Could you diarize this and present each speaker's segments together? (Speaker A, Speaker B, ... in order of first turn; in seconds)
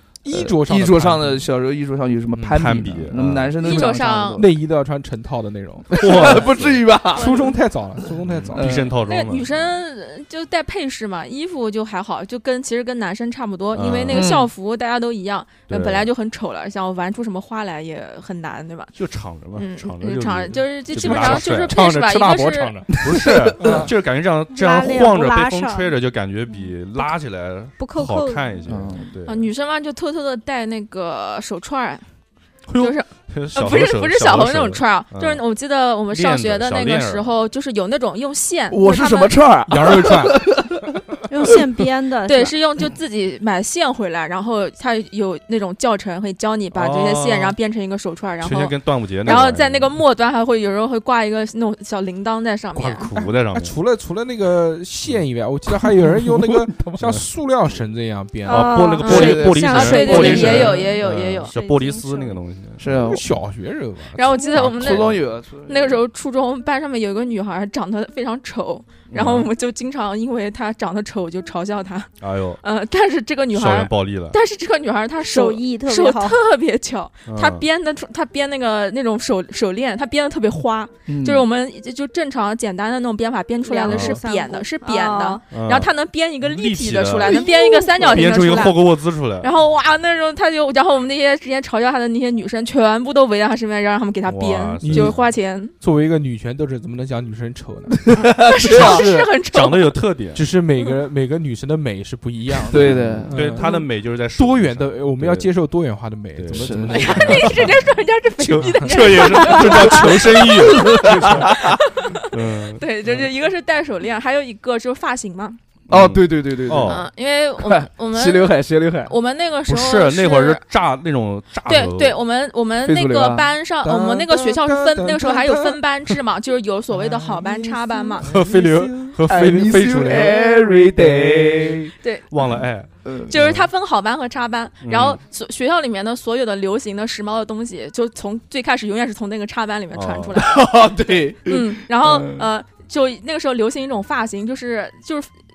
Speaker A: 0.2-1.5, 2.3-2.9, 4.3-6.4, 7.1-8.8, 20.9-23.0, 23.6-23.9, 39.7-40.4, 52.8-58.8, 62.9-64.7, 94.8-95.2, 95.8-99.3, 100.3-103.7, 104.3-107.7, 108.6-108.9, 111.0-111.4, 123.8-126.2, 128.2-130.5, 131.0-131.6
Speaker B: 0.3-4.5, 5.9-7.3, 8.5-8.9, 14.1-14.5, 22.9-23.9, 28.6-29.1, 38.7-40.9, 56.0-57.0, 59.1-60.8, 62.8-63.2, 64.5-66.0, 81.1-81.5, 98.1-99.0, 102.7-103.4, 106.5-107.2, 109.8-111.8, 115.9-117.0, 117.6-119.1, 122.8-123.5, 128.2-133.3, 140.3-142.4
Speaker C: 2.5-3.7, 5.9-6.8, 8.3-9.6, 13.7-14.3, 15.7-16.1, 18.9-21.8, 23.0-29.5, 32.7-35.4, 36.1-37.3, 46.7-47.5, 48.4-49.9, 52.8-53.8, 58.5-62.8, 64.6-65.2, 69.1-69.5, 72.2-72.6, 73.5-74.4, 77.3-77.6, 83.9-84.2, 85.5-85.9, 86.4-89.5, 94.2-95.2, 99.5-100.4, 102.7-105.5, 106.3-107.7, 108.4-111.8, 112.3-112.8, 115.9-117.0, 119.7-122.2, 132.3-133.7, 134.8-135.2, 139.9-140.3
Speaker D: 3.6-4.4, 9.1-18.9, 19.5-22.8, 29.2-32.0, 32.8-39.3, 42.2-53.1, 59.0-62.4, 64.1-95.7, 98.4-100.0, 103.6-103.9, 106.9-115.6, 116.8-120.6, 121.6-128.3, 133.3-140.6, 141.4-145.3
Speaker E: 24.5-25.9, 27.8-28.6, 41.3-42.5, 58.4-61.5, 75.2-76.4, 83.6-85.4, 87.2-88.7